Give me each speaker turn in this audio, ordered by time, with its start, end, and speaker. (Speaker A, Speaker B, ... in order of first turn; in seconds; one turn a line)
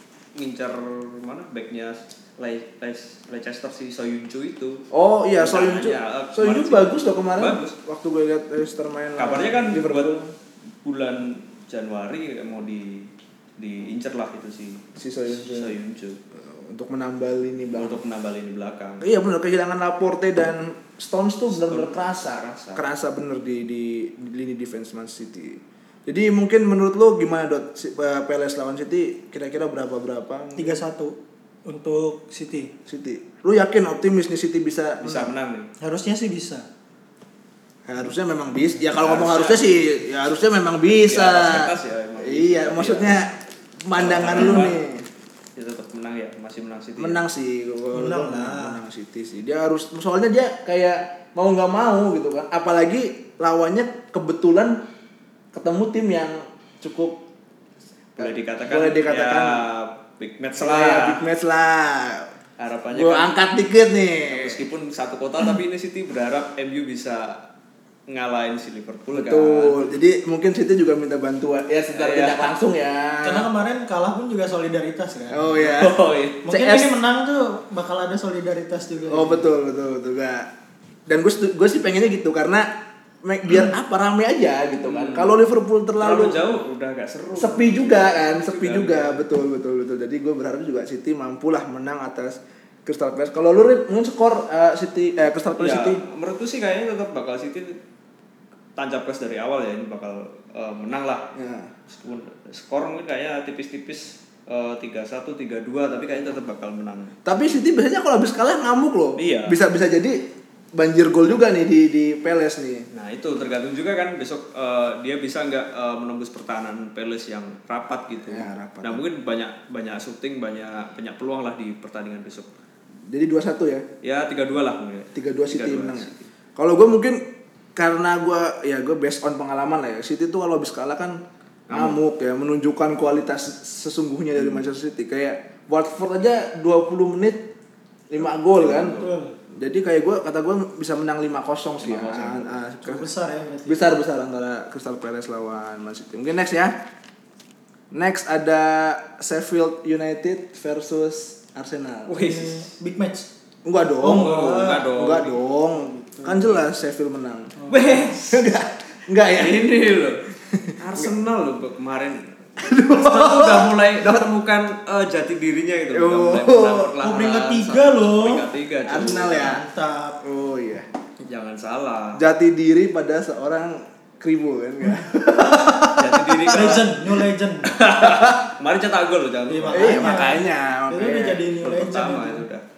Speaker A: 0.3-4.8
Speaker B: 4.9-10.3
Speaker A: 5.4-7.7
Speaker A: 9.2-10.1
Speaker A: 10.8-16.2
Speaker B: 14.9-15.8
Speaker B: 16.3-18.0
Speaker A: 17.8-19.1
Speaker B: 19.0-30.8
Speaker A: 21.6-22.9
Speaker C: 30.6-32.7
Speaker B: 32.9-35.3
Speaker A: 35.0-35.7
Speaker C: 35.8-36.6
Speaker B: 37.9-45.0
Speaker A: 38.9-39.6
Speaker A: 40.9-43.2
Speaker A: 43.9-44.8
Speaker A: 45.5-47.2
Speaker B: 47.0-54.8
Speaker C: 47.9-48.8
Speaker B: 55.5-57.2
Speaker A: 58.2-61.2
Speaker B: 58.2-59.6
Speaker B: 60.5-62.3
Speaker A: 62.6-63.3
Speaker B: 62.9-64.6
Speaker A: 64.3-67.4
Speaker A: 68.1-69.8
Speaker B: 69.1-73.5
Speaker A: 71.9-72.5
Speaker C: 73.2-75.8
Speaker B: 75.3-77.0
Speaker A: 75.7-76.4
Speaker C: 76.4-79.5
Speaker B: 79.1-80.5
Speaker B: 81.1-82.7
Speaker B: 83.2-86.4
Speaker A: 84.9-85.4
Speaker A: 86.0-89.2
Speaker B: 87.3-96.0
Speaker A: 95.6-97.8
Speaker A: 98.8-101.2
Speaker B: 101.3-101.7
Speaker A: 101.9-107.2
Speaker B: 107.2-112.8
Speaker A: 109.2-109.6
Speaker A: 112.9-122.5
Speaker B: 118.3-119.0
Speaker B: 123.1-123.9
Speaker A: 124.0-126.2
Speaker B: 125.1-137.5
Speaker A: 131.7-132.0
Speaker B: 138.1-139.1
Speaker A: 138.5-139.1
Speaker C: 138.9-139.3
Speaker B: 139.6-143.1
Speaker A: 141.8-142.6
Speaker C: 142.8-143.9
Speaker B: 143.7-146.8
Speaker B: 147.9-152.1
Speaker A: 152.1-152.7
Speaker C: 152.1-153.3
Speaker B: 153.6-159.7
Speaker C: 154.0-154.9
Speaker A: 154.0-155.4
Speaker C: 155.8-156.5
Speaker C: 157.6-157.9
Speaker A: 157.7-158.4
Speaker A: 159.3-160.2
Speaker B: 160.5-161.1
Speaker A: 160.8-169.5
Speaker B: 162.6-164.3
Speaker B: 165.9-166.9
Speaker C: 167.0-168.4
Speaker B: 168.8-169.6
Speaker C: 169.3-170.2
Speaker B: 170.2-170.9
Speaker A: 171.2-172.2
Speaker B: 172.2-176.8
Speaker C: 175.2-175.8
Speaker A: 175.9-177.0
Speaker C: 176.5-177.8
Speaker A: 177.7-180.2
Speaker B: 178.0-178.4
Speaker C: 179.5-182.4
Speaker B: 179.7-181.5
Speaker A: 181.6-182.6